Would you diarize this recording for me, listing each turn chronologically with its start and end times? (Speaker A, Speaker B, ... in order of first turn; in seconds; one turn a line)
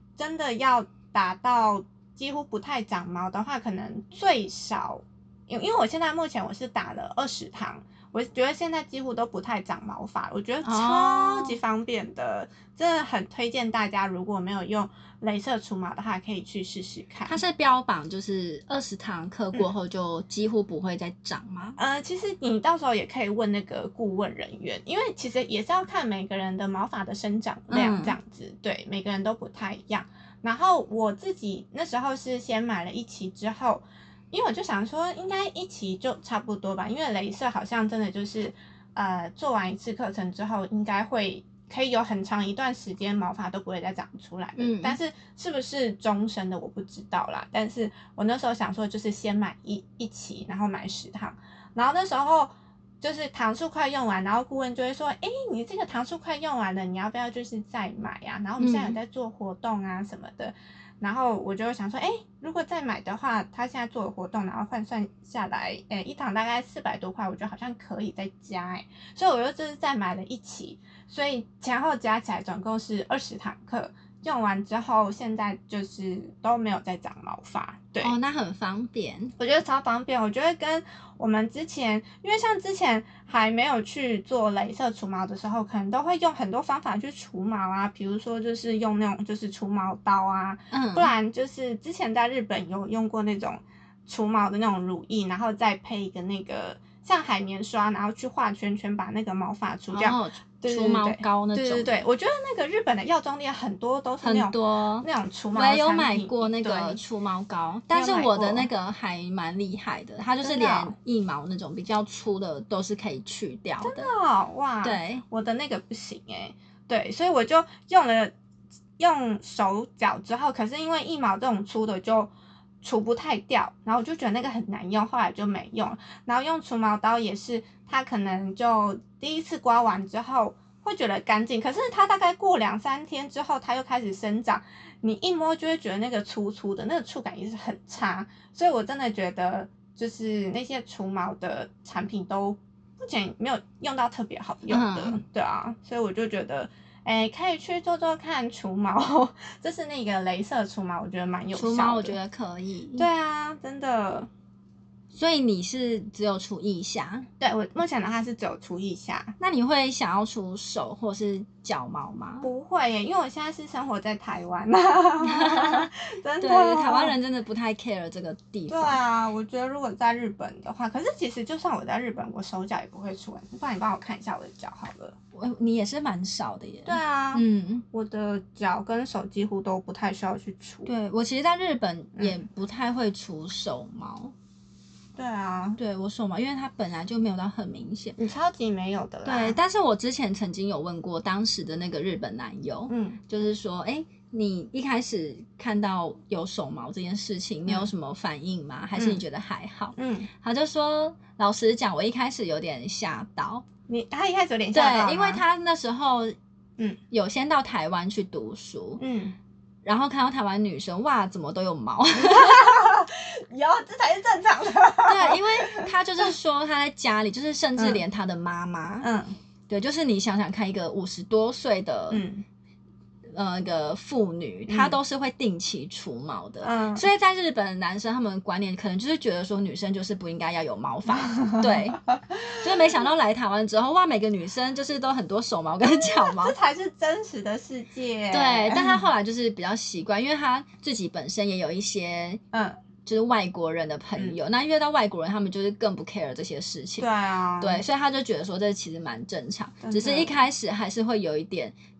Speaker A: 0.2-17.4
Speaker B: 10.6-11.6
Speaker B: 17.3-21.8
Speaker A: 21.8-78.1
Speaker B: 27.7-28.2
Speaker B: 44.6-45.0
Speaker B: 58.6-59.0
Speaker B: 78.0-79.3
Speaker A: 79.4-107.0
Speaker B: 90.7-91.1
Speaker B: 99.9-102.0
Speaker B: 104.2-114.1
Speaker A: 107.9-108.7
Speaker A: 110.4-110.9
Speaker A: 113.8-118.3
Speaker B: 114.8-115.2
Speaker A: 119.0-122.3
Speaker A: 122.8-152.2
Speaker B: 144.7-145.2
Speaker B: 151.5-153.1
Speaker A: 153.0-154.3
Speaker B: 155.1-157.3
Speaker A: 157.4-159.3
Speaker B: 159.4-162.5
Speaker A: 162.4-167.2
Speaker B: 165.2-169.0
Speaker A: 168.7-175.2
Speaker B: 175.3-177.8
Speaker A: 176.8-180.9
Speaker B: 180.8-184.3
Speaker A: 185.2-185.8
Speaker B: 185.8-188.2
Speaker A: 188.2-189.6
Speaker B: 189.2-203.6
Speaker A: 192.9-193.2
Speaker A: 197.7-197.9
Speaker A: 198.9-199.2
Speaker A: 199.9-200.3
Speaker A: 203.9-205.4
Speaker B: 204.7-206.3
Speaker B: 207.1-209.0
Speaker A: 209.0-209.3
Speaker B: 209.8-212.8
Speaker A: 212.2-215.9
Speaker B: 215.1-219.1
Speaker A: 217.8-218.0
Speaker A: 219.0-219.4
Speaker B: 219.7-222.2
Speaker A: 222.1-222.4
Speaker B: 223.3-232.0
Speaker A: 224.7-225.0
Speaker A: 226.6-227.1
Speaker A: 231.2-232.5
Speaker B: 232.5-236.5
Speaker A: 235.8-239.1
Speaker B: 238.3-242.4
Speaker A: 242.5-242.8
Speaker B: 243.0-247.1
Speaker A: 247.0-247.8
Speaker B: 247.6-251.7
Speaker A: 249.8-250.4